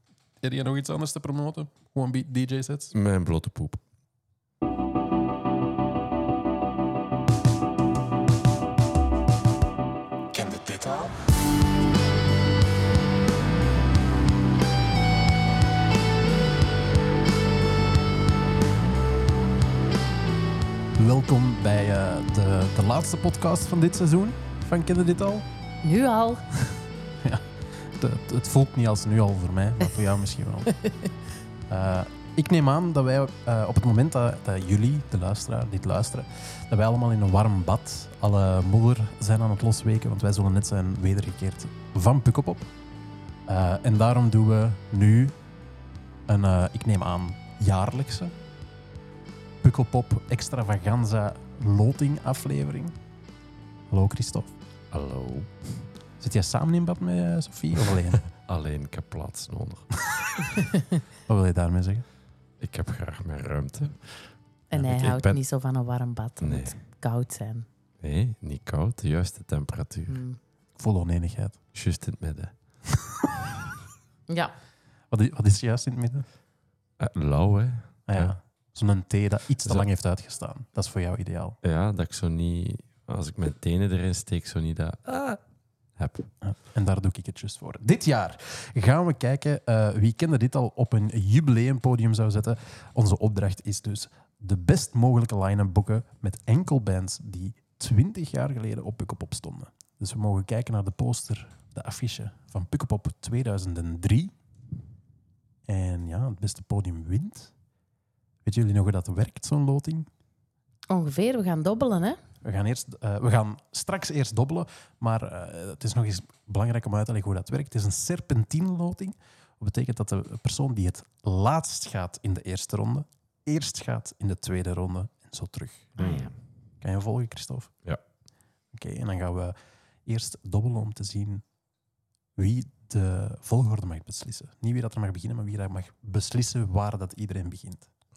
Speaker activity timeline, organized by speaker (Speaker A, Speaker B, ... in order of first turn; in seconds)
Speaker A: 0.4-2.9, 10.3-11.1, 21.0-25.4, 27.2-30.7, 31.7-42.7, 43.5-45.4, 46.3-48.3, 49.6-52.9, 53.9-54.5, 56.2-58.2, 61.3-62.0, 70.8-71.6, 75.1-76.2, 78.1-81.6, 86.4-104.3, 105.7-107.5, 108.4-110.1, 112.4-126.0, 126.8-127.7, 128.7-129.5, 130.1-131.4, 132.4-137.9
Speaker B: 2.9-3.8, 54.9-55.5, 58.2-60.1, 62.6-65.4, 66.4-66.7, 68.0-70.2, 71.7-72.5, 77.0-78.3, 81.6-85.4, 86.0-86.3, 126.0-126.3
Speaker C: 25.8-26.5, 30.7-31.1, 64.7-67.7, 70.1-70.4, 74.3-74.5, 110.9-112.2, 126.0-126.3